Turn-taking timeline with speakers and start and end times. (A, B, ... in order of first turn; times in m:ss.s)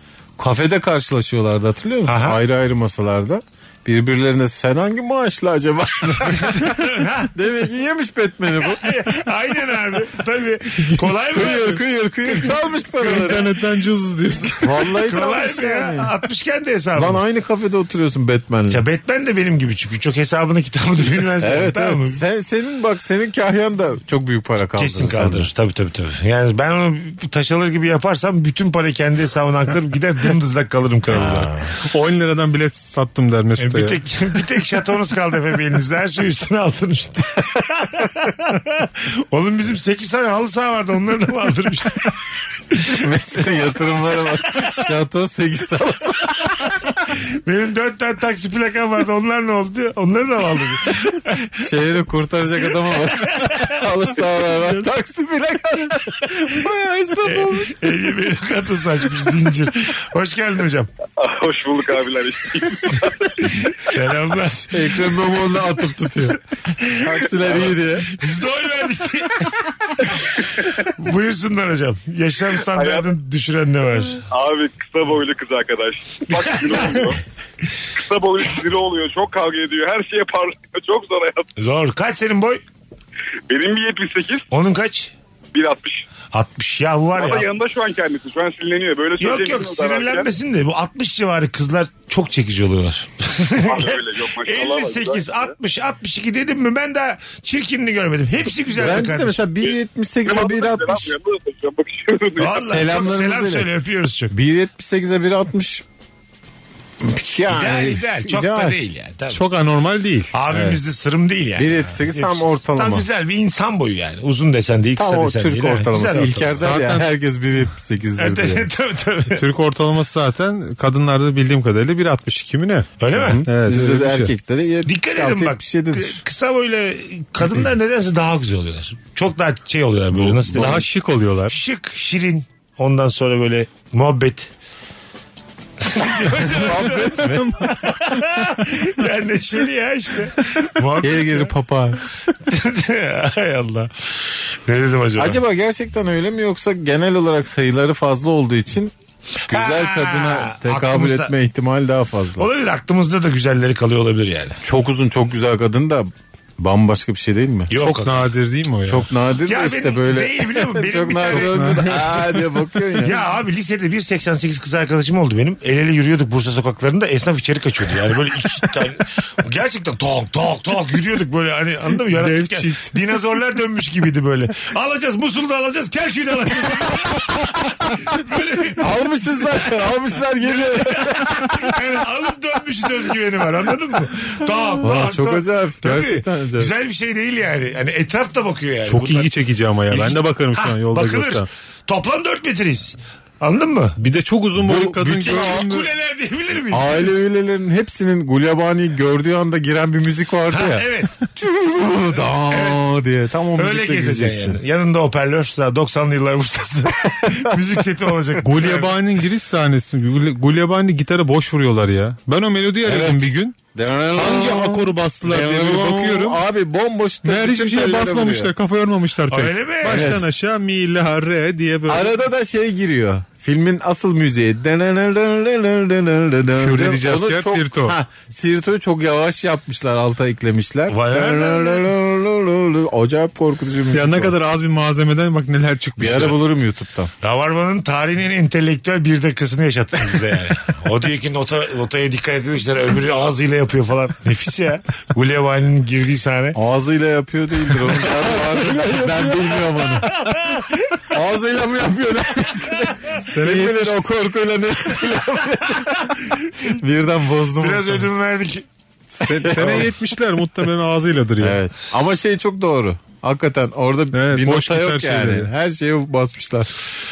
0:00.4-0:08.8 A
0:02.1-0:02.4 B
0:06.2-0:07.3 B
0:08.6-0:12.6 B
0:11.3-0:13.5 A
0:13.0-0:14.9 C
0:14.6-0:16.1 A
0:15.0-0:17.2 B
0:17.0-0:18.8 A
0:18.7-0:22.2 B
0:21.4-0:25.5 A
0:24.8-0:31.5 B
0:31.1-0:31.7 A
0:31.8-0:34.0 C
0:33.6-0:42.2 B
0:42.7-0:43.0 B
0:42.8-0:46.9 A
0:47.3-0:51.6 B
0:51.6-0:58.1 A
0:52.8-0:53.8 B
0:57.2-1:00.9 B
1:01.2-1:03.9 D
1:03.5-1:05.3 B
1:04.7-1:06.4 A
1:06.7-1:14.3 B
1:07.0-1:08.2 A
1:10.4-1:10.9 D
1:12.6-1:13.1 D
1:14.3-1:17.2 D
1:16.3-1:17.2 B
1:17.9-1:21.5 D
1:21.6-1:22.6 B
1:23.5-1:24.5 D
1:24.5-1:25.1 B
1:25.5-1:26.0 D
1:26.3-1:27.5 B
1:27.1-1:30.3 D
1:29.2-1:39.5 B
1:33.6-1:35.5 D
1:38.7-1:41.1 A
1:39.6-1:42.7 D
1:42.4-1:44.3 B
1:42.4-1:43.7 A
1:44.3-1:45.8 A
1:47.0-1:48.8 A
1:47.5-1:49.4 B
1:49.3-1:50.4 C
1:50.3-1:56.6 B
1:50.5-1:50.8 A
1:51.6-1:53.1 A
1:55.0-1:58.7 A
1:56.6-1:57.1 C
1:58.2-1:59.5 B
1:59.4-2:02.9 C
2:03.0-2:03.4 B
2:03.2-2:06.2 A
2:03.5-2:04.3 C
2:04.9-2:10.9 B
2:10.1-2:10.8 A
2:10.5-2:11.6 C
2:11.5-2:14.5 B
2:15.8-2:21.5 B
2:16.5-2:17.7 A
2:16.8-2:18.8 C
2:21.0-2:22.0 A
2:22.4-2:25.4 B
2:25.2-2:28.9 A
2:29.5-2:31.3 B
2:29.5-2:32.5 A
2:32.4-2:34.6 B
2:34.6-2:37.7 A
2:37.7-2:38.3 B
2:37.8-2:39.1 C
2:38.9-2:43.2 A
2:39.5-2:42.0 B
2:41.5-2:42.3 C
2:43.0-2:59.7 B
2:52.1-2:53.0 C
2:58.8-3:01.7 A
3:00.4-3:09.3 B
3:04.8-3:06.7 A
3:08.9-3:11.5 C
3:09.9-3:14.0 B
3:14.0-3:15.9 C
3:14.6-3:15.6 A
3:15.2-3:17.2 B
3:16.7-3:24.6 A
3:20.5-3:21.2 B
3:22.5-3:22.9 B
3:23.6-3:28.9 B
3:28.4-3:33.6 C
3:32.8-3:38.5 A
3:34.1-3:36.4 C
3:37.2-3:42.1 C
3:39.3-3:40.2 B
3:39.9-3:40.3 A
3:41.9-3:54.4 A
3:46.6-3:48.0 C
3:50.9-3:51.9 B
3:53.9-3:56.4 C
3:56.0-3:57.1 A
3:57.2-4:06.6 B
4:06.5-4:10.2 A
4:07.7-4:11.1 B
4:11.1-4:18.1 A
4:13.2-4:14.0 C
4:15.2-4:16.7 B
4:17.6-4:18.7 B
4:19.1-4:21.6 C
4:19.4-4:19.9 A
4:19.4-4:19.9 B
4:21.4-4:26.7 A
4:24.1-4:25.5 C